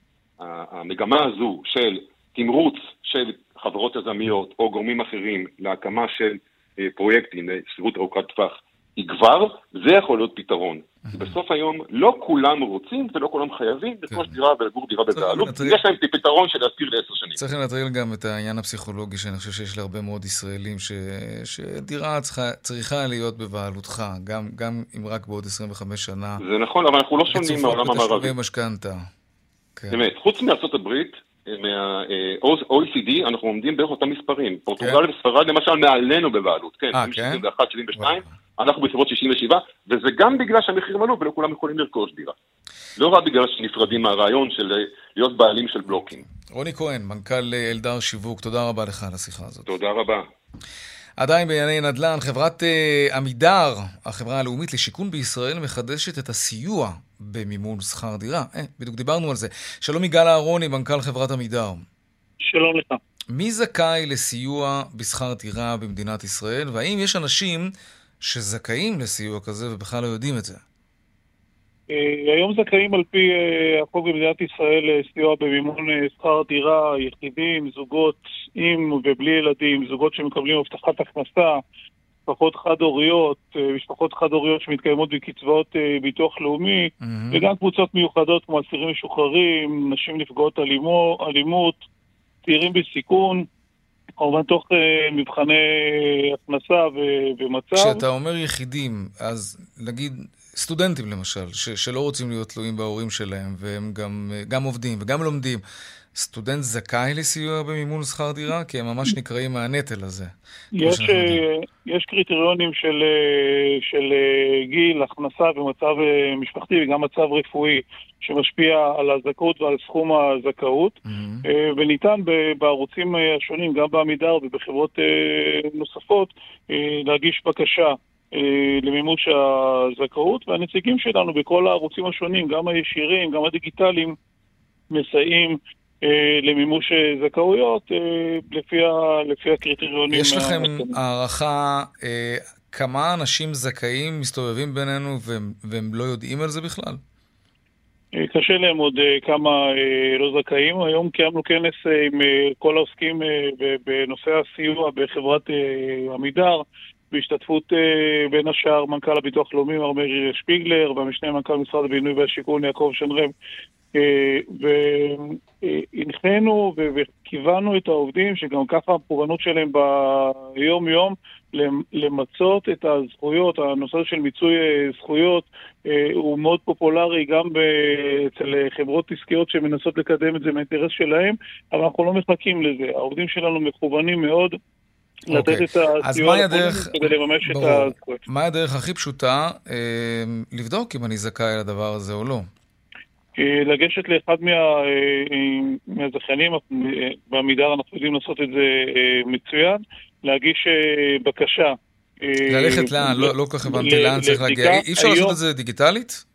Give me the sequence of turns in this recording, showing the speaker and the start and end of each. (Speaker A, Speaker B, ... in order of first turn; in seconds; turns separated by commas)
Speaker A: 0.4-17.4, Speaker B: 15.1-15.8, Speaker B: 17.4-26.4, Speaker A: 26.4-28.3, Speaker B: 27.3-29.0, Speaker A: 29.9-42.3, Speaker B: 36.9-37.4, Speaker B: 38.0-38.2, Speaker A: 43.0-46.2, Speaker B: 46.5-49.7, Speaker A: 49.6-50.3, Speaker B: 51.2-61.8, Speaker C: 62.4-63.0, Speaker B: 63.3-70.6, Speaker C: 71.9-81.6, Speaker C: 82.3-91.8, Speaker B: 87.0-87.5, Speaker C: 92.4-93.5, Speaker C: 94.2-98.0, Speaker B: 97.7-105.6, Speaker B: 106.1-111.4, Speaker C: 110.8-121.0, Speaker B: 121.0-121.4, Speaker C: 121.5-134.2, Speaker C: 134.9-140.9, Speaker B: 140.1-147.0, Speaker C: 148.2-163.3, Speaker C: 163.9-184.5, Speaker C: 185.3-188.2, Speaker B: 185.3-192.5, Speaker C: 193.4-205.3, Speaker B: 202.5-206.2